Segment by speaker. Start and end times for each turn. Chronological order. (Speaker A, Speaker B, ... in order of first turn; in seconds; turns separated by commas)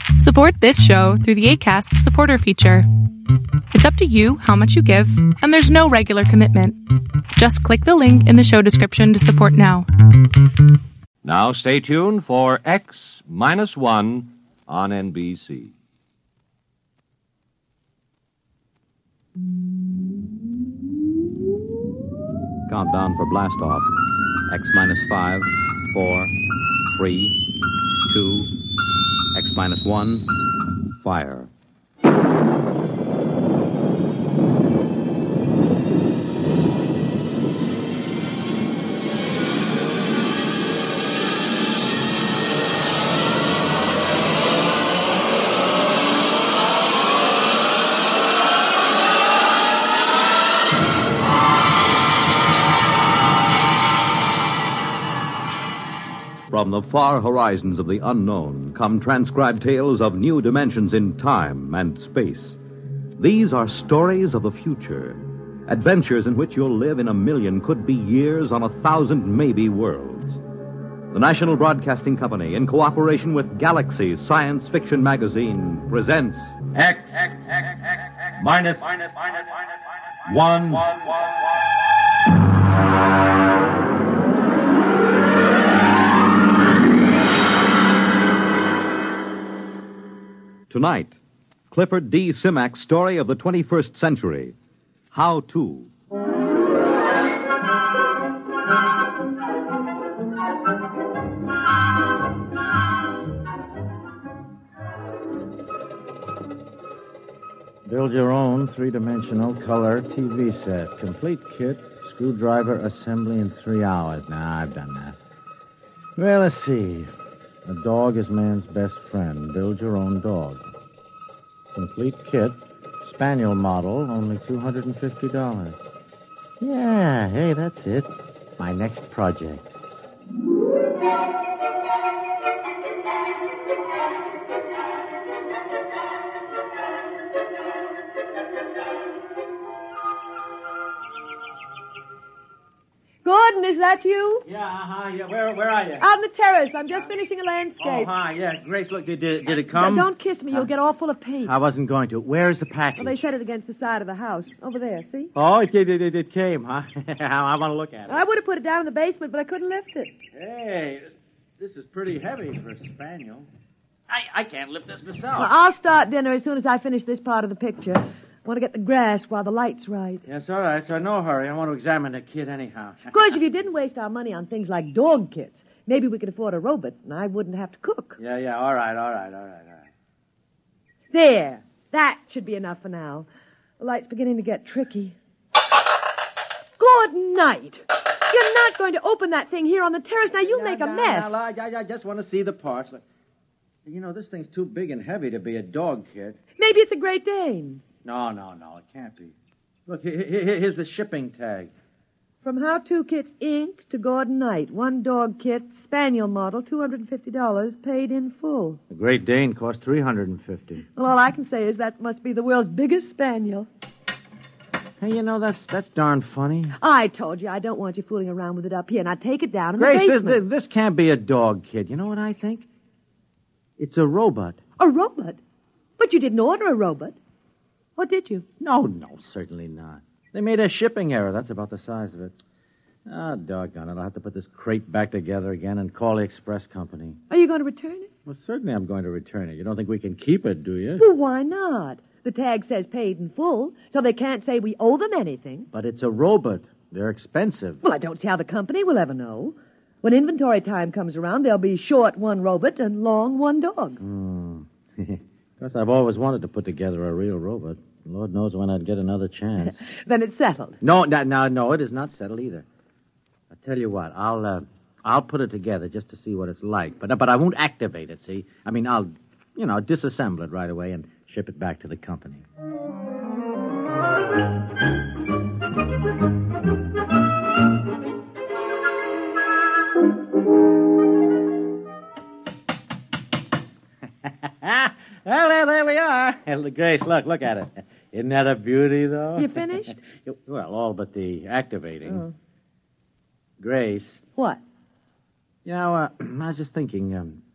Speaker A: 0.2-2.9, Speaker A: 3.7-6.8, Speaker A: 7.3-9.8, Speaker B: 11.2-15.7, Speaker C: 22.7-23.9, Speaker C: 24.5-26.3, Speaker C: 26.9-27.3, Speaker C: 28.1-28.5, Speaker C: 29.3-30.2, Speaker C: 31.0-31.5, Speaker D: 56.5-62.6, Speaker D: 63.2-70.4, Speaker D: 71.1-77.3, Speaker D: 78.4-79.1, Speaker D: 80.2-81.1, Speaker D: 90.7-91.2, Speaker D: 91.7-94.5, Speaker D: 95.1-95.9, Speaker C: 107.8-115.2, Speaker C: 116.2-117.1, Speaker C: 117.6-120.6, Speaker C: 121.7-125.8, Speaker C: 126.6-129.7, Speaker E: 143.2-144.4, Speaker C: 144.4-146.0, Speaker E: 146.0-148.1, Speaker C: 147.8-150.7, Speaker E: 149.7-151.5, Speaker C: 151.4-153.2, Speaker E: 153.0-155.3, Speaker C: 155.3-158.2, Speaker E: 158.1-160.1, Speaker C: 160.3-163.5, Speaker C: 164.1-165.5, Speaker E: 165.3-170.2, Speaker C: 170.2-173.3, Speaker E: 173.1-178.2, Speaker C: 178.2-179.8, Speaker E: 181.1-183.3, Speaker E: 183.8-185.2, Speaker E: 186.8-191.4, Speaker C: 190.3-193.0, Speaker C: 193.8-196.4, Speaker E: 196.6-197.8, Speaker C: 198.0-199.3, Speaker C: 199.9-201.7, Speaker E: 202.4-208.8, Speaker C: 208.9-210.8, Speaker E: 210.9-213.7, Speaker C: 215.0-216.7, Speaker E: 216.8-220.4, Speaker C: 219.8-222.7, Speaker C: 223.8-224.6, Speaker E: 224.8-225.4, Speaker E: 226.0-227.2, Speaker E: 228.0-228.4, Speaker C: 228.6-232.4, Speaker C: 233.1-237.2, Speaker E: 237.3-238.1, Speaker C: 238.2-241.0, Speaker E: 241.0-245.7, Speaker C: 245.7-247.8, Speaker E: 247.8-254.0, Speaker C: 254.0-259.8, Speaker E: 259.6-260.8, Speaker C: 260.8-262.6, Speaker C: 263.5-272.4, Speaker C: 284.2-289.6, Speaker E: 289.4-290.0, Speaker C: 290.2-292.2, Speaker E: 292.1-292.3, Speaker C: 293.6-294.2, Speaker C: 295.6-297.4